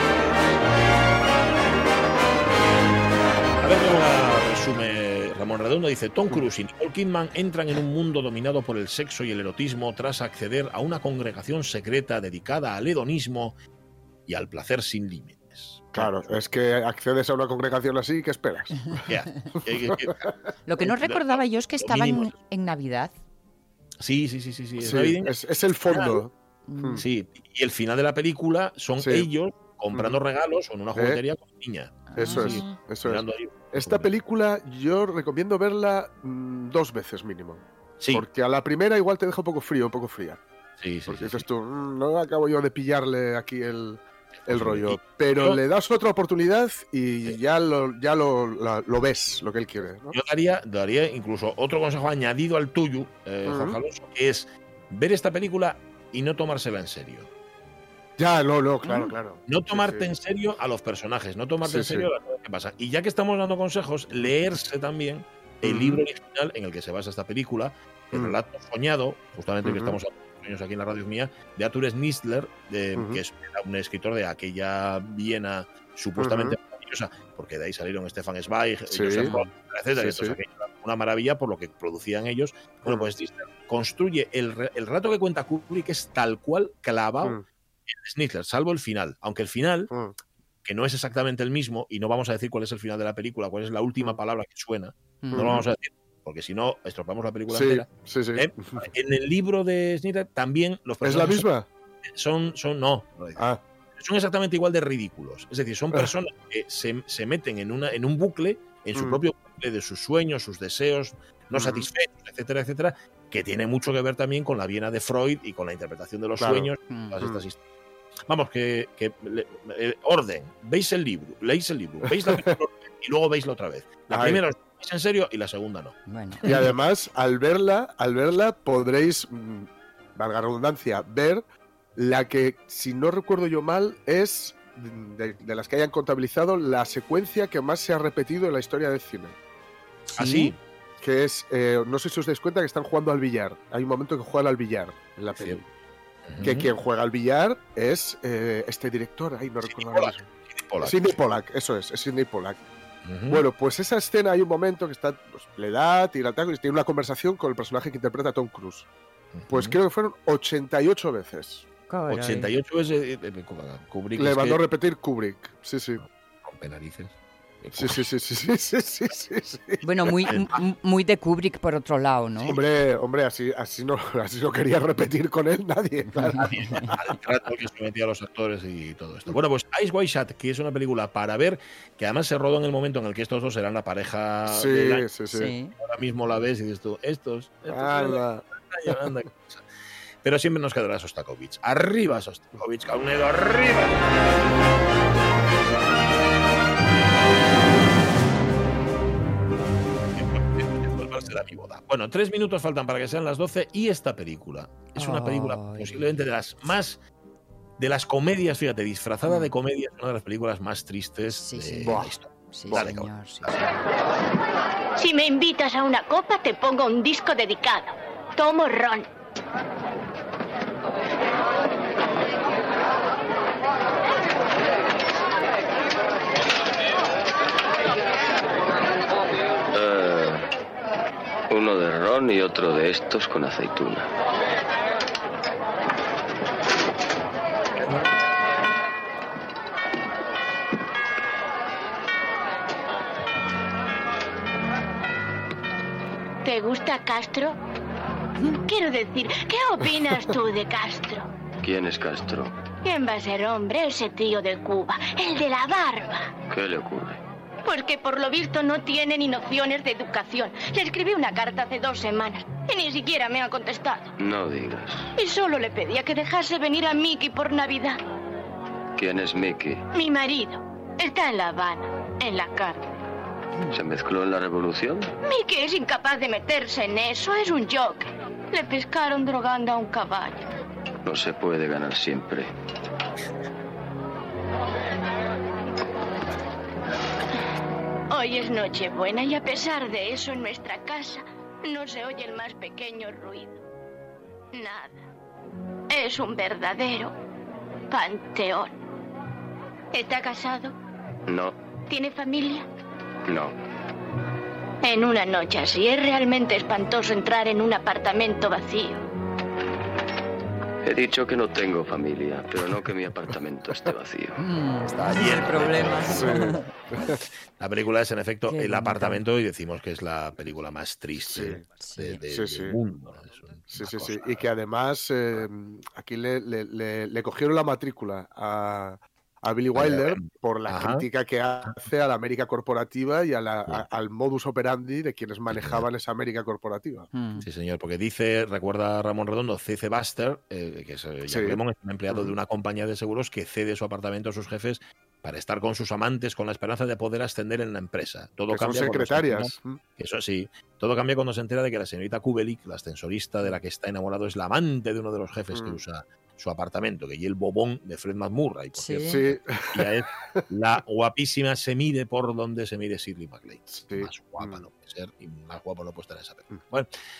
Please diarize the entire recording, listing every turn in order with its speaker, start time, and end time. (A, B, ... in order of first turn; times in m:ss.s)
0:03.6-0:13.6 A
0:14.3-0:16.4 A
0:15.9-0:19.0 B
0:19.0-0:20.3 A
0:19.9-0:20.3 B
0:20.7-0:23.1 C
0:20.8-0:22.3 A
0:24.0-0:25.3 A
0:24.8-0:27.1 B
0:25.8-0:26.2 A
0:26.7-0:27.0 C
0:27.0-0:34.1 A
0:29.0-0:29.3 B
0:29.9-0:30.2 B
0:30.9-0:31.2 B
0:32.1-0:32.8 C
0:32.2-0:40.4 B
0:38.0-0:38.2 A
0:40.8-0:41.4 A
0:41.1-0:50.2 B
0:44.4-0:45.6 A
0:50.1-0:57.3 A
0:53.4-0:53.8 B
0:58.2-1:00.1 B
0:58.9-1:29.9 A
1:01.6-1:02.1 B
1:05.6-1:06.0 B
1:09.6-1:10.0 B
1:12.9-1:13.2 B
1:16.2-1:16.6 B
1:18.9-1:19.4 B
1:19.2-1:19.4 C
1:20.0-1:20.4 B
1:29.9-1:30.1 B
1:30.6-1:41.5 A
1:35.3-1:35.6 B
1:37.5-1:38.9 B
1:41.0-1:41.7 B
1:42.1-1:57.6 A
1:43.4-1:43.6 B
1:48.9-1:49.2 B
1:51.5-1:51.9 B
1:56.4-1:56.7 B
1:56.9-1:57.2 C
1:58.3-2:06.6 A
2:02.0-2:02.4 B
2:04.1-2:04.4 B
2:06.1-2:06.4 C
2:06.4-2:11.4 B
2:12.0-2:19.4 B
2:20.1-2:20.5 C
2:20.2-2:20.6 A
2:21.0-2:25.6 B
2:25.3-2:25.6 A
2:26.3-2:26.7 A
2:26.4-2:30.3 B
2:29.6-2:31.1 A
2:30.8-2:32.6 B
2:33.0-2:33.4 A
2:33.3-2:38.9 B
2:39.3-2:39.8 A
2:39.5-2:41.6 B
2:41.9-2:42.5 C
2:42.1-2:44.6 A
2:44.2-2:46.0 B
2:46.0-2:48.0 A
2:47.7-2:50.2 B
2:49.8-2:52.6 C
2:50.3-2:50.5 A
2:52.4-2:57.2 B
2:56.2-2:56.9 C
2:56.4-3:09.6 A
3:04.4-3:05.5 B
3:05.3-3:05.7 C
3:07.7-3:09.1 B
3:10.2-3:14.0 A
3:20.1-3:27.0 A
3:25.0-3:26.1 C
3:27.8-3:33.7 A
3:31.4-3:33.6 C
3:31.8-3:32.1 B
3:32.7-3:32.9 B
3:35.0-3:39.1 D
3:49.7-3:50.5 E
3:51.5-3:54.1 E
4:06.4-4:07.6 D
4:08.4-4:11.3 D
4:11.6-4:12.5 E
4:12.8-4:16.3 D
4:16.5-4:17.2 E
4:17.6-4:24.1 D
4:24.2-4:25.1 E
4:25.2-4:28.0 D
4:29.0-4:29.8 E
4:29.9-4:32.8 D
4:33.7-4:35.1 E
4:35.2-4:40.4 D
4:41.0-4:42.5 E
4:48.1-4:53.5 D
4:54.5-4:55.0 D
4:55.9-4:57.1 D
4:57.9-4:58.7 D
4:59.9-5:00.7 D
5:01.3-5:01.6 E
5:01.9-5:02.6 D
5:03.2-5:03.6 E
5:04.8-5:09.0 D
5:10.8-5:14.4 E
5:14.4-5:16.6 C
5:14.9-5:24.5 A
5:16.1-5:17.2 B
5:18.5-5:19.2 C
5:21.3-5:21.6 B
5:21.8-5:22.2 C
5:22.3-5:22.8 B
5:23.7-5:37.1 B
5:29.7-5:31.0 A
5:35.5-5:35.8 A
5:37.1-5:37.4 C
5:37.4-6:06.9 A
5:41.2-5:41.6 B
5:48.5-5:49.8 B
5:55.5-5:55.8 B
5:58.7-5:59.2 C
5:59.0-6:00.4 B
6:03.7-6:04.6 B